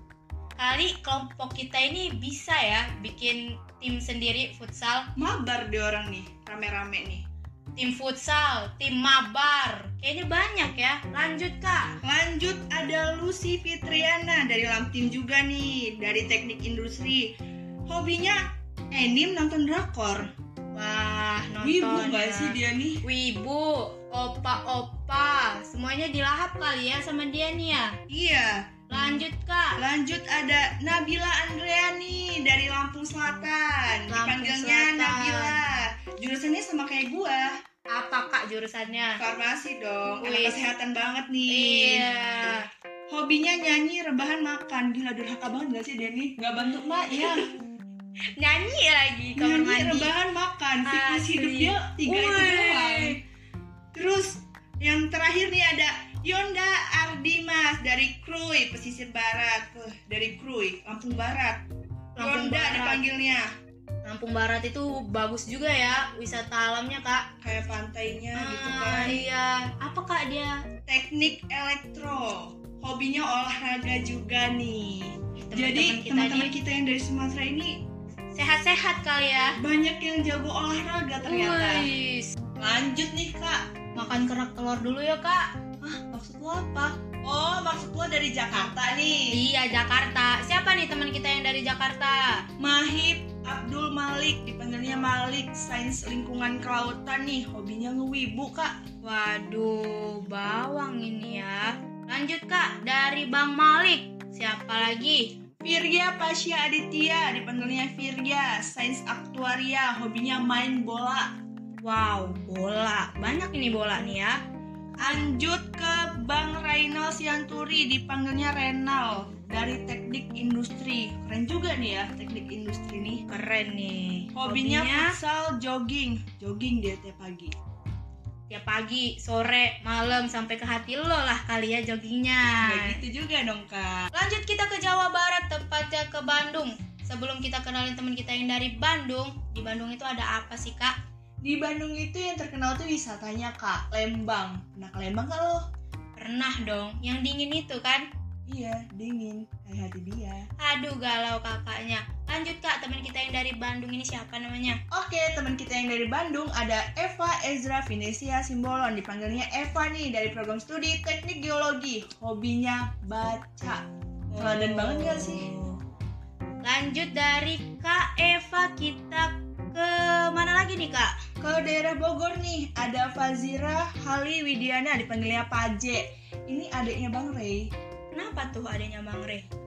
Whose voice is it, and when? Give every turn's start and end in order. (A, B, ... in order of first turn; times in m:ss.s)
0:00.6-0:05.1 A
0:05.2-0:07.2 B
0:07.8-0:12.0 A
0:12.0-0:17.3 B
0:17.9-0:20.3 B
0:20.8-0:28.0 A
0:21.6-0:23.0 B
0:28.1-0:28.7 B
0:28.9-0:29.8 A
0:29.8-0:37.6 B
0:34.1-0:35.6 A
0:37.9-0:39.2 A
0:39.2-0:42.1 B
0:40.2-0:40.6 A
0:41.5-0:42.7 A
0:43.1-0:47.5 B
0:47.1-0:47.4 A
0:48.4-0:50.1 A
0:49.4-0:53.2 B
0:50.9-0:53.2 A
0:53.9-1:01.6 B
1:02.2-1:03.0 A
1:02.2-1:03.5 B
1:04.0-1:07.3 A
1:07.4-1:09.2 B
1:08.4-1:10.6 A
1:10.9-1:17.8 B
1:15.4-1:16.5 A
1:18.3-1:19.6 A
1:19.6-1:21.9 B
1:21.2-1:22.4 A
1:22.6-1:23.6 B
1:24.0-1:25.5 A
1:25.8-1:29.4 B
1:29.3-1:32.4 A
1:32.6-1:38.8 B
1:39.0-1:45.3 A
1:45.6-1:51.3 B
1:51.8-1:54.4 A
1:55.0-1:55.3 A
1:55.0-2:03.2 B
2:03.3-2:05.1 A
2:04.3-2:07.5 B
2:08.5-2:13.0 A
2:12.6-2:14.1 B
2:14.1-2:20.9 A
2:21.4-2:25.6 B
2:26.2-2:28.1 A
2:28.5-2:30.5 B
2:30.6-2:34.8 A
2:34.9-2:43.8 B
2:44.3-2:45.8 A
2:44.4-2:45.5 B
2:46.6-2:51.2 A
2:51.4-2:57.7 B
2:58.1-2:59.5 A